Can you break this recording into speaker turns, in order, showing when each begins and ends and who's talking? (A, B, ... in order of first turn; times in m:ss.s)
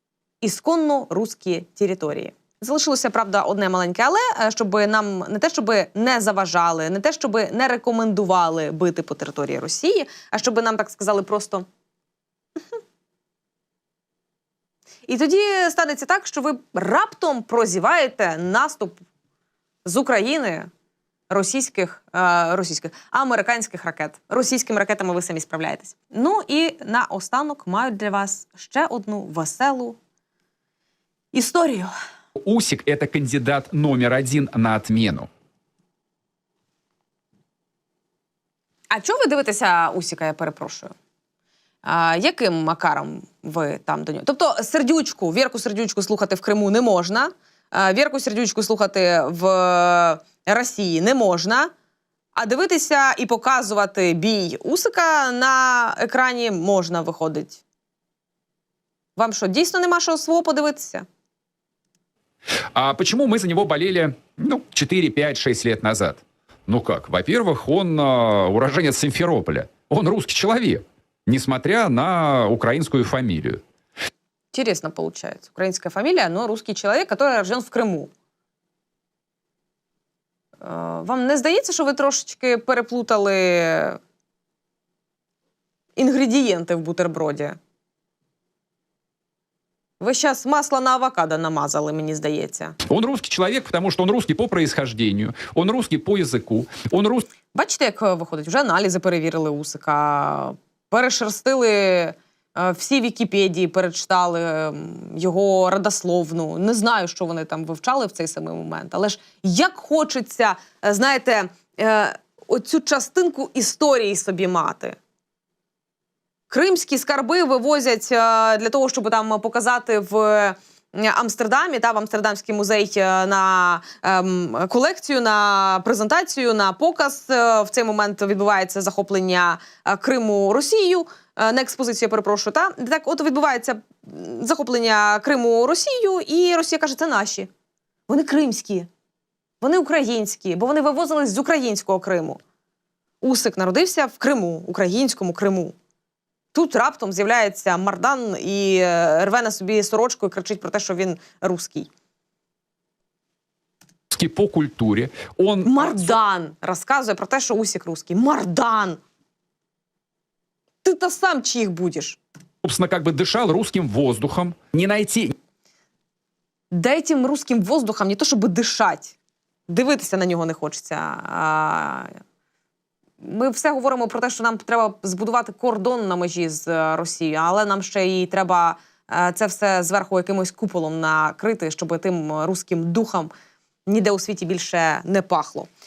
0:00.4-0:11.7 A
0:15.1-0:19.0 A
0:19.8-0:20.7 A
0:21.3-0:30.0 A
0:31.3-0:31.9 A
0:32.4-0:35.3 B
0:38.9-0:40.9 A
0:41.8-0:51.7 A
0:52.4-0:57.6 A
0:59.2-1:01.1 A
1:02.8-1:13.6 B
1:14.5-1:18.1 A
1:20.6-1:24.0 A
1:26.0-1:27.6 A
1:30.0-1:32.8 A
1:32.9-1:37.3 B
1:37.5-1:55.0 A
1:56.5-2:17.5 A
2:18.1-2:18.9 A
2:19.6-2:22.4 A
2:23.2-2:25.8 A
2:26.5-2:31.9 A
2:34.1-2:36.1 B
2:35.6-2:39.0 A
2:40.8-2:42.2 A
2:42.6-2:45.3 B
2:46.7-2:49.2 A
2:49.7-2:52.2 A
2:53.2-3:03.3 A
3:03.9-3:05.7 A